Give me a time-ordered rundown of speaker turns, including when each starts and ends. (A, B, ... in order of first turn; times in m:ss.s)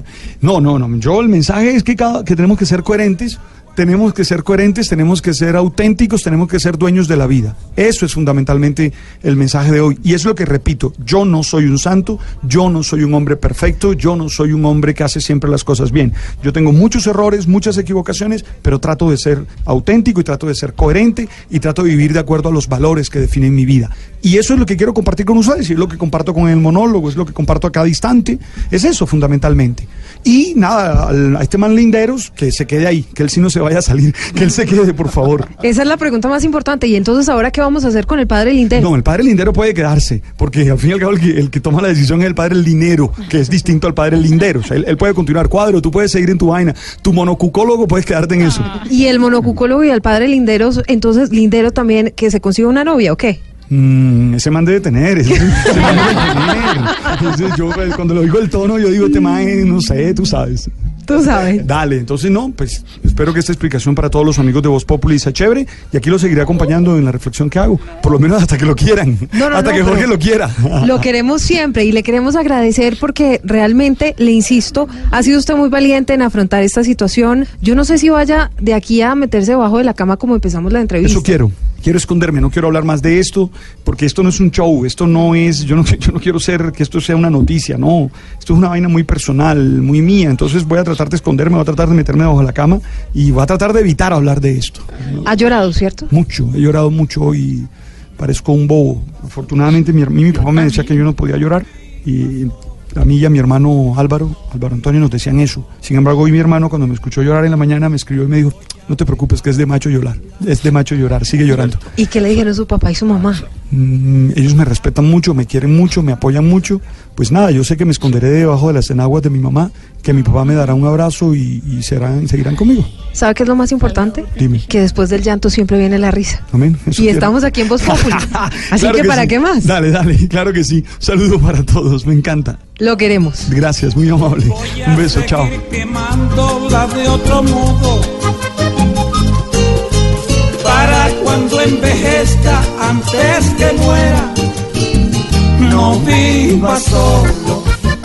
0:00.4-0:35.5 A
0:35.6-0:38.9 B
0:38.7-0:48.8 A
0:48.8-0:53.4 B
0:53.7-1:00.7 A
0:55.6-0:56.0 B
1:01.0-1:01.6 B
1:01.5-1:11.0 A
1:09.3-1:10.1 B
1:10.8-1:21.4 B
1:21.0-1:35.2 A
1:35.2-1:36.1 B
1:36.1-1:51.8 A
1:52.0-1:53.4 B
1:53.7-2:02.9 A
2:03.1-2:06.4 B
2:04.3-2:04.7 A
2:06.5-2:12.6 A
2:06.9-2:09.7 B
2:12.8-2:13.5 B
2:13.4-2:15.6 A
2:14.5-2:18.1 C
2:20.6-2:24.4 C
2:25.6-2:27.7 C